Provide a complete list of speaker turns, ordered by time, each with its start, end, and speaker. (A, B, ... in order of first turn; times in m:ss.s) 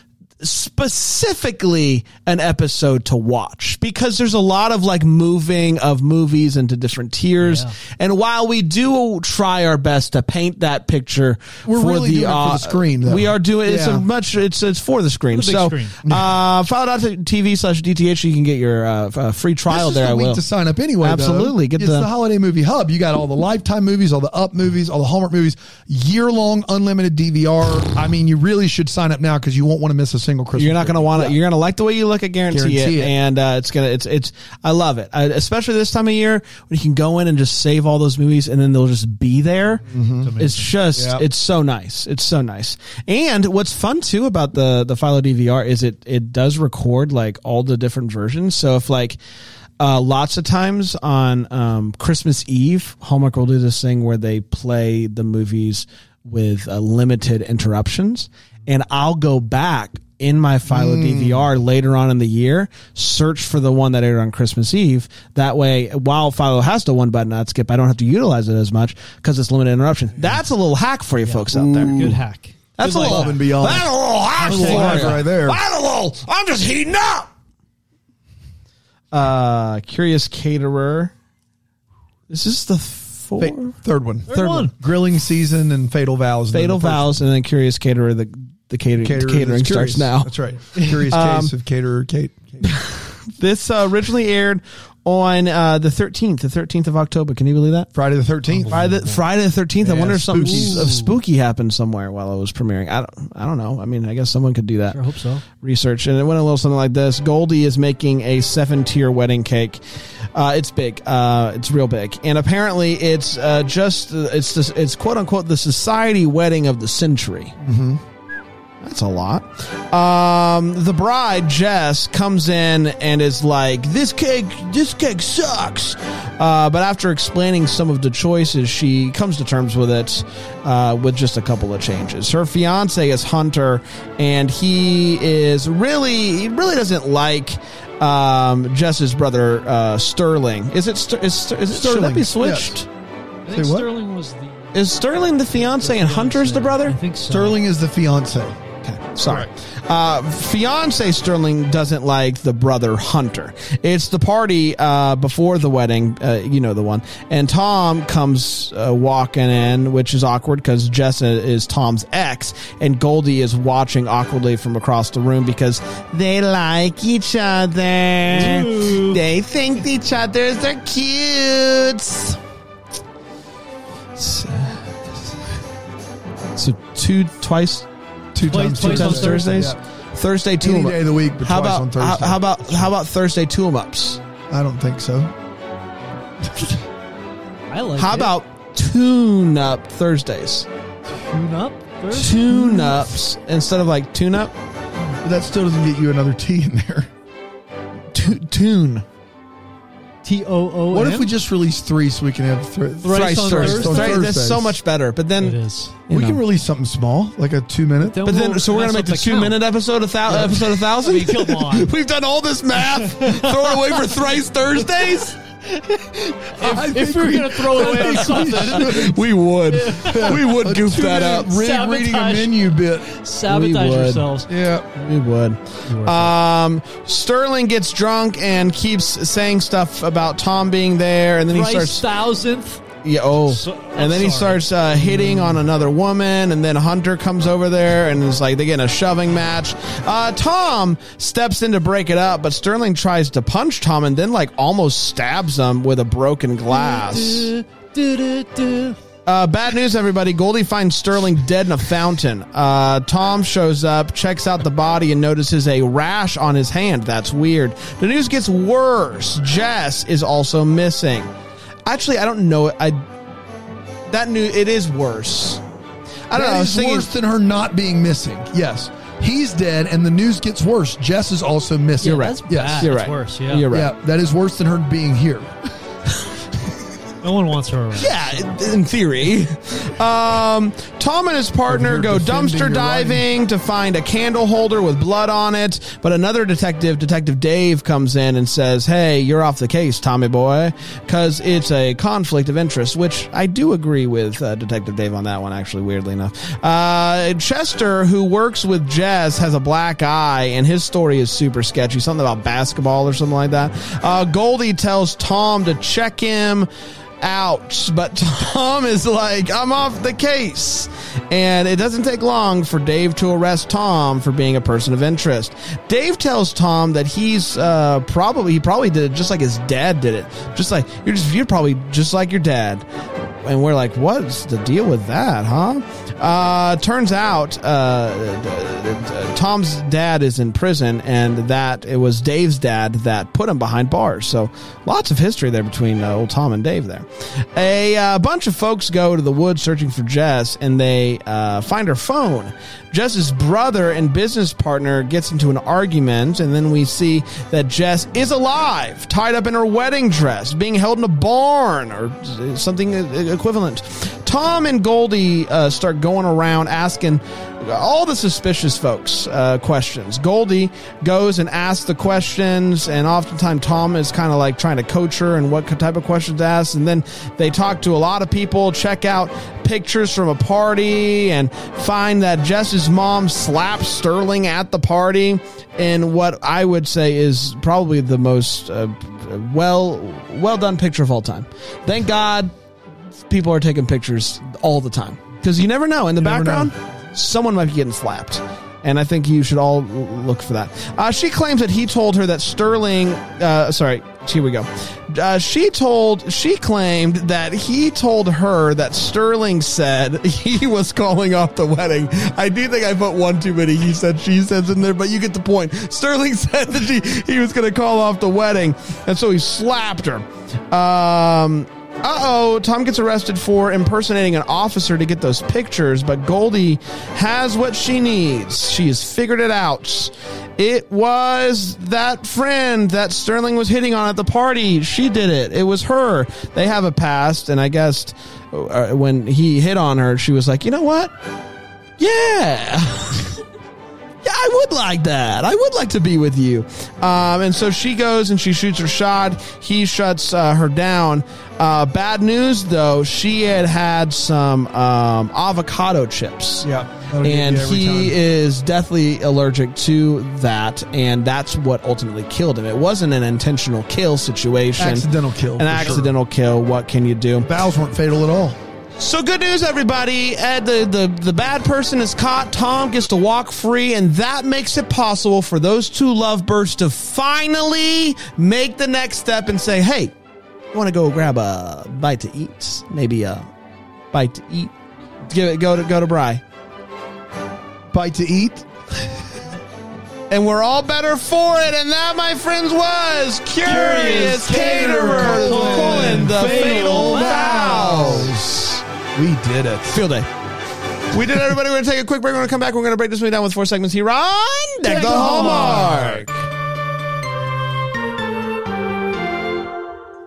0:00.4-0:20.4 A
0:07.4-0:07.7 B
0:11.6-0:14.0 C
0:15.3-0:16.0 B
0:16.0-0:16.4 C
0:19.7-0:31.4 C
0:21.0-0:22.1 A
0:30.6-0:49.2 A
0:32.5-0:33.1 C
0:39.8-0:40.3 C
0:40.2-0:40.7 B
0:40.9-0:41.2 C
0:49.8-1:12.2 A
1:00.7-1:01.5 C
1:11.2-1:13.8 B
1:12.8-1:17.3 A
1:12.8-1:13.9 C
1:14.4-1:15.3 B
1:14.4-1:15.6 C
1:19.1-1:21.1 A
1:22.3-1:23.8 A
1:23.4-1:27.2 C
1:24.3-1:24.7 B
1:24.3-1:24.7 A
1:26.5-1:31.5 A
1:29.0-1:32.7 C
1:30.8-1:31.0 B
1:32.6-1:37.9 A
1:37.9-1:39.1 C
1:38.6-1:39.2 B
1:38.7-1:45.0 A
1:39.8-1:41.0 C
1:40.1-1:41.1 B
1:44.9-1:45.4 B
1:45.6-1:49.8 A
1:50.3-1:57.6 A
1:57.6-1:58.0 C
1:58.8-2:22.9 A
2:21.7-2:22.8 C
2:23.4-2:24.7 B
2:23.5-2:23.9 C
2:24.7-2:27.0 A
2:25.6-2:27.6 B
2:27.3-2:28.6 C
2:28.8-2:52.4 A
2:48.3-2:49.2 B
2:54.2-2:55.3 A
2:56.6-2:57.9 A
2:58.3-2:59.8 C
2:58.4-2:59.5 B
2:58.8-3:04.2 A
3:00.6-3:02.9 C
3:04.5-3:05.3 C
3:07.7-3:08.3 B
3:08.0-3:10.7 A
3:11.1-3:13.1 B
3:12.1-3:14.5 A
3:15.2-3:17.1 C
3:18.1-3:19.0 A
3:20.2-3:21.3 B
3:20.9-3:24.8 C
3:23.0-3:24.3 B
3:23.1-3:25.6 A
3:25.4-3:26.0 B
3:26.1-3:26.4 A
3:26.1-3:28.3 C
3:28.0-3:29.6 B
3:28.2-3:35.4 A
3:30.3-3:31.9 B
3:32.9-3:34.1 B
3:35.6-3:39.2 B
3:36.6-3:39.2 C
3:37.8-3:41.5 A
3:39.7-3:40.6 B
3:39.9-3:43.1 C
3:41.2-3:44.5 B
3:43.5-3:44.3 A
3:44.5-3:44.9 C
3:44.9-3:52.0 A
3:45.9-3:46.3 B
3:51.5-3:52.9 B
3:53.0-4:07.5 A
3:53.5-3:55.6 B
4:06.7-4:09.0 B
4:09.3-4:21.3 A
4:21.9-4:23.0 A
4:24.1-4:25.6 A
4:26.3-4:27.1 A
4:26.3-4:32.9 C
4:32.0-4:33.6 B
4:32.0-4:33.9 A
4:33.7-4:35.5 C
4:37.2-4:38.2 B
4:38.0-5:06.7 A
4:41.7-4:43.3 C
5:07.2-6:22.5 A
6:23.3-7:11.1 A
6:26.2-6:26.7 C
7:12.0-7:13.4 A
7:14.2-7:26.7 A
7:26.6-7:28.2 C
7:27.2-7:35.1 A
7:34.8-7:36.1 C
7:35.6-7:37.5 A
7:37.4-7:38.6 C
7:39.0-7:50.1 A
7:50.7-7:53.5 A
7:54.1-7:54.7 A
7:55.3-7:56.4 A
7:57.9-7:58.7 C
8:00.3-8:08.8 A
8:03.6-8:08.0 B
8:03.7-8:10.0 C
8:09.9-8:10.3 A
8:11.1-8:16.4 A
8:14.9-8:16.3 C
8:14.9-8:15.9 B